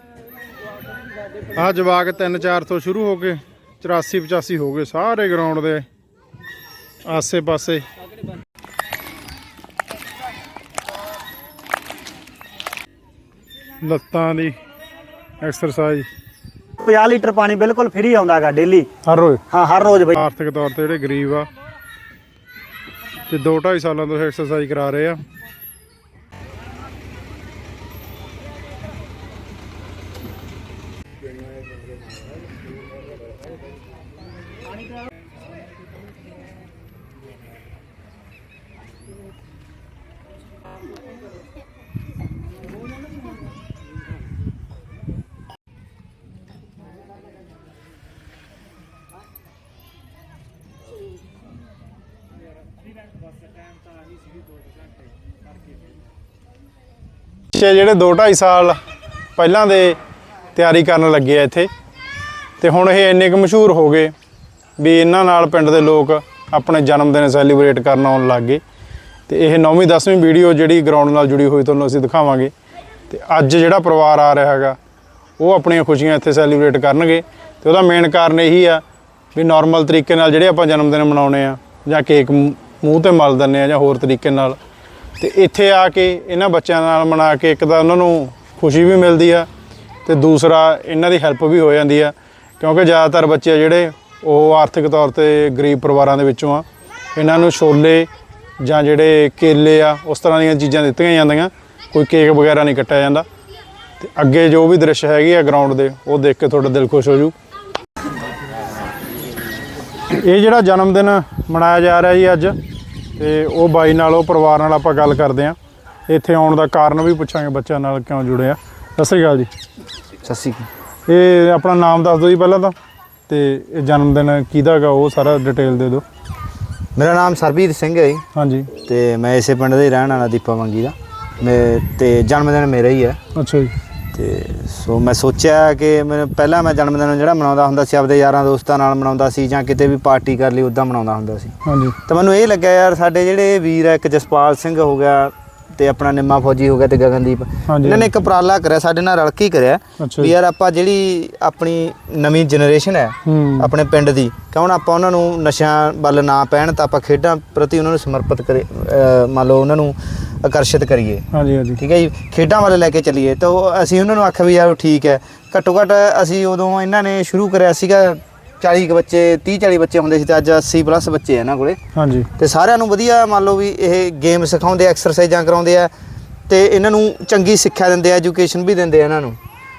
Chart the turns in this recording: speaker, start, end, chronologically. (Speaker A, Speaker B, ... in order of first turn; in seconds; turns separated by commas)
Speaker A: 1.6-5.9, Speaker A: 7.0-7.9, Speaker A: 13.8-14.6, Speaker A: 15.4-16.1, Speaker B: 16.9-18.7, Speaker A: 19.1-19.4, Speaker B: 19.5-19.9, Speaker A: 20.1-21.5, Speaker A: 23.3-25.2, Speaker A: 57.5-58.8, Speaker A: 59.4-60.0, Speaker A: 60.6-61.7, Speaker A: 62.6-64.1, Speaker A: 64.8-68.6, Speaker A: 69.3-72.5, Speaker A: 73.1-74.8, Speaker A: 75.4-78.8, Speaker A: 79.3-84.6, Speaker A: 85.2-89.5, Speaker A: 90.1-96.7, Speaker A: 97.2-98.1, Speaker A: 98.6-103.3, Speaker A: 104.0-107.3, Speaker A: 110.1-112.6, Speaker A: 113.2-115.6, Speaker A: 116.1-119.5, Speaker C: 120.2-120.7, Speaker A: 121.1-122.8, Speaker A: 123.3-126.0, Speaker C: 127.0-133.2, Speaker A: 128.3-128.7, Speaker A: 133.3-133.7, Speaker C: 134.1-161.3, Speaker A: 141.7-142.0, Speaker A: 147.7-148.1, Speaker A: 150.0-150.3, Speaker A: 153.2-153.7, Speaker A: 161.3-161.8, Speaker C: 161.8-171.8, Speaker A: 171.9-172.3, Speaker C: 172.4-175.9, Speaker C: 176.5-179.4